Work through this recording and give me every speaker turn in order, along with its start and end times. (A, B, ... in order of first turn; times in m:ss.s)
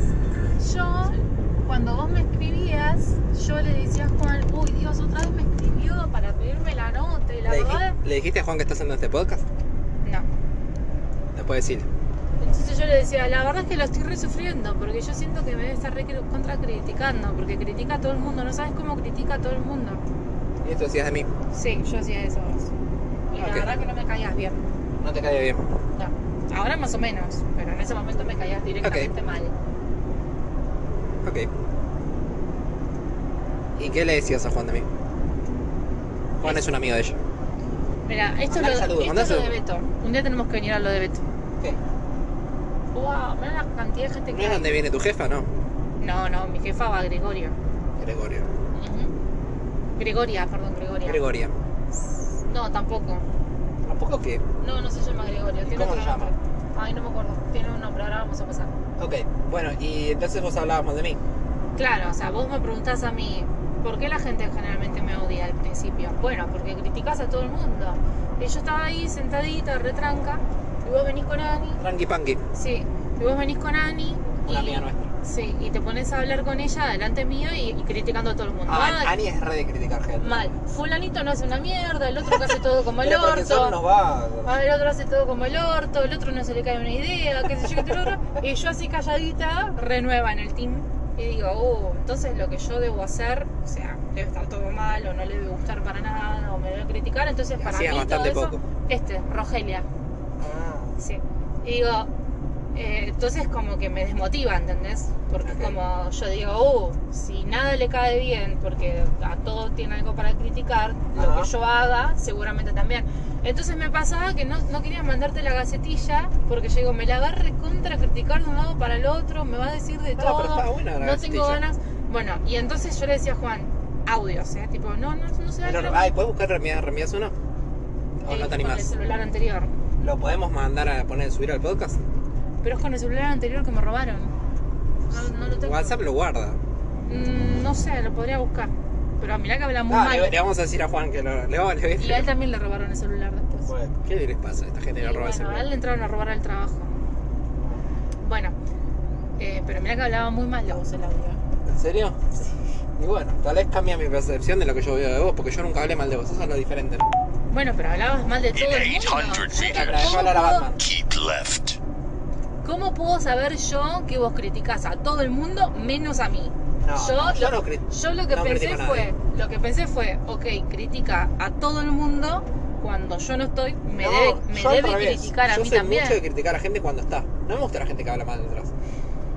0:00.6-0:08.0 A
0:07.5-0:09.4 B
0:10.0-0:10.3 A
0:11.4-0:11.9 B
0:12.4-0:20.0 A
0:20.6-0:21.3 B
0:21.5-0:22.7 A
0:23.3-0:24.7 A
0:23.3-0:23.8 B
0:25.0-0:25.6 B
0:25.9-0:29.5 A
0:28.8-0:29.1 B
0:31.2-0:31.5 B
0:33.8-0:34.9 B
0:36.4-0:37.2 B
0:36.4-0:36.7 A
0:38.0-0:41.2 A
0:38.5-0:39.6 B
0:42.9-0:44.8 A
0:44.3-0:45.5 B
0:46.0-0:47.6 A
0:48.0-0:48.5 B
0:48.7-0:49.1 A
0:49.9-0:51.2 A
0:51.0-0:51.5 B
0:52.4-0:53.2 A
0:53.8-0:54.4 B
0:54.6-0:58.7 A
0:55.7-0:56.3 B
0:59.0-1:01.2 B
1:01.8-1:11.8 A
1:11.8-1:12.4 B
1:12.5-1:19.1 A
1:14.4-1:15.1 B
1:18.7-1:20.5 B
1:20.2-1:23.8 A
1:23.0-1:24.6 B
1:24.4-1:39.9 A
1:37.6-1:38.6 B
1:40.4-1:40.9 B
1:41.0-1:42.1 A
1:42.7-2:06.1 A
1:45.4-1:45.8 B
1:51.1-1:51.5 B
2:00.2-2:01.6 B
2:05.6-2:07.3 B
2:08.2-2:08.9 B
2:08.2-2:09.8 A
2:10.0-2:12.0 B
2:12.6-2:14.3 A
2:15.1-2:16.6 B
2:15.1-2:16.0 A
2:17.1-2:20.4 A
2:19.9-2:22.3 B
2:22.0-2:23.7 A
2:23.7-2:25.7 B
2:25.0-2:26.9 A
2:28.2-2:28.5 A
2:29.4-2:31.4 A
2:31.7-2:32.2 B
2:33.0-2:37.1 B
2:37.5-2:40.7 A
2:38.6-2:41.8 C
2:39.5-2:40.8 B
2:42.6-2:56.2 A
2:46.8-2:49.1 B
2:53.9-2:58.7 B